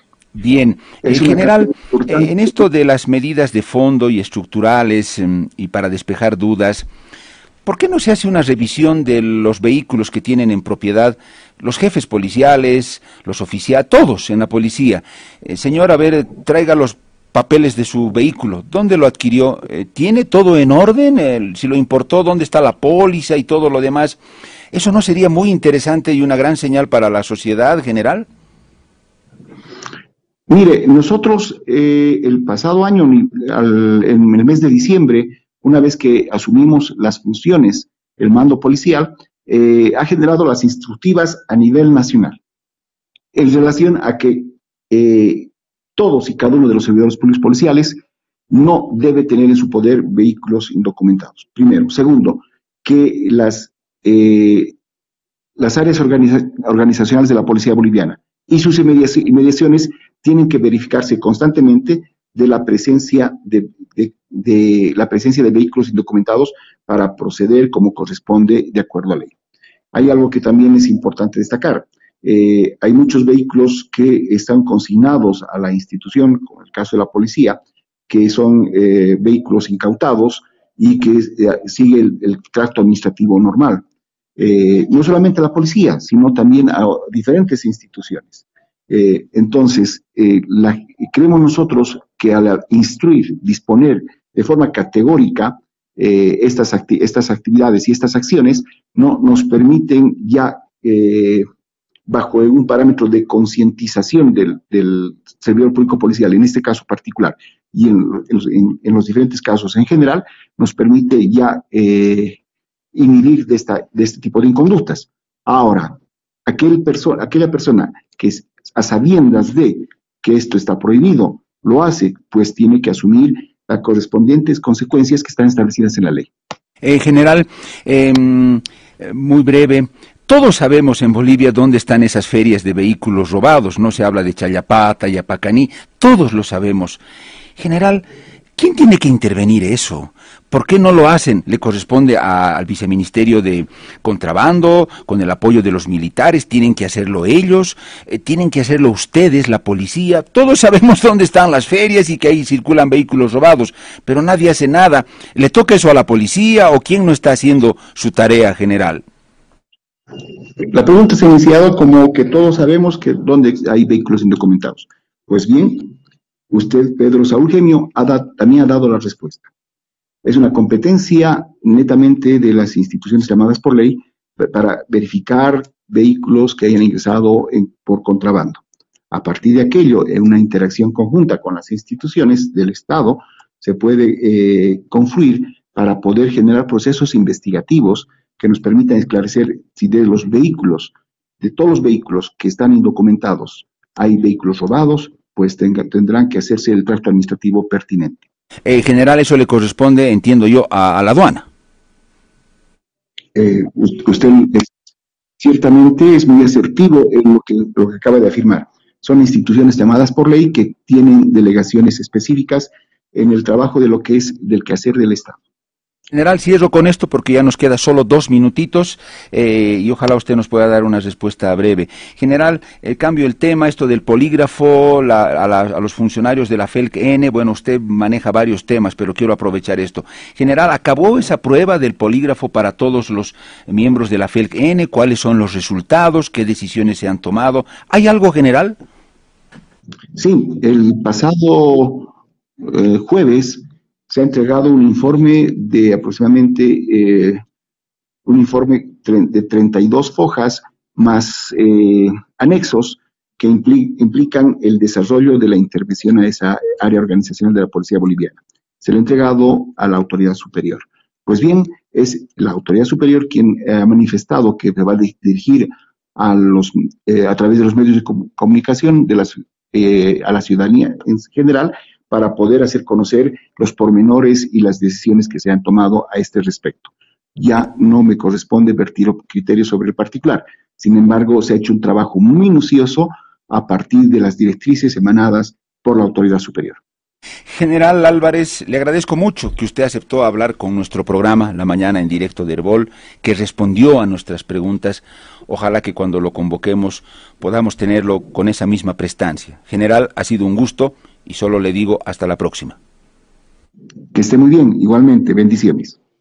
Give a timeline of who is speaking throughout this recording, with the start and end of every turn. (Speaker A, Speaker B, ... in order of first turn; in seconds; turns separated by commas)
Speaker A: 0.3-6.9, Speaker B: 1.0-2.5, Speaker A: 7.6-24.2, Speaker A: 24.7-28.2, Speaker B: 30.5-42.4, Speaker B: 43.3-48.0, Speaker B: 48.5-54.7, Speaker B: 55.6-69.3, Speaker B: 69.9-83.8, Speaker B: 84.4-101.5, Speaker B: 102.1-112.4, Speaker B: 112.9-126.3, Speaker A: 126.8-137.0, Speaker A: 137.6-138.0, Speaker A: 138.6-159.0, Speaker B: 160.7-165.9, Speaker B: 166.5-169.5, Speaker B: 170.2-198.2, Speaker A: 198.7-201.4, Speaker B: 203.3-204.7, Speaker B: 205.4-215.4, Speaker A: 216.1-238.8, Speaker B: 240.1-247.4, Speaker B: 248.2-286.8, Speaker A: 287.5-302.8, Speaker B: 304.1-306.0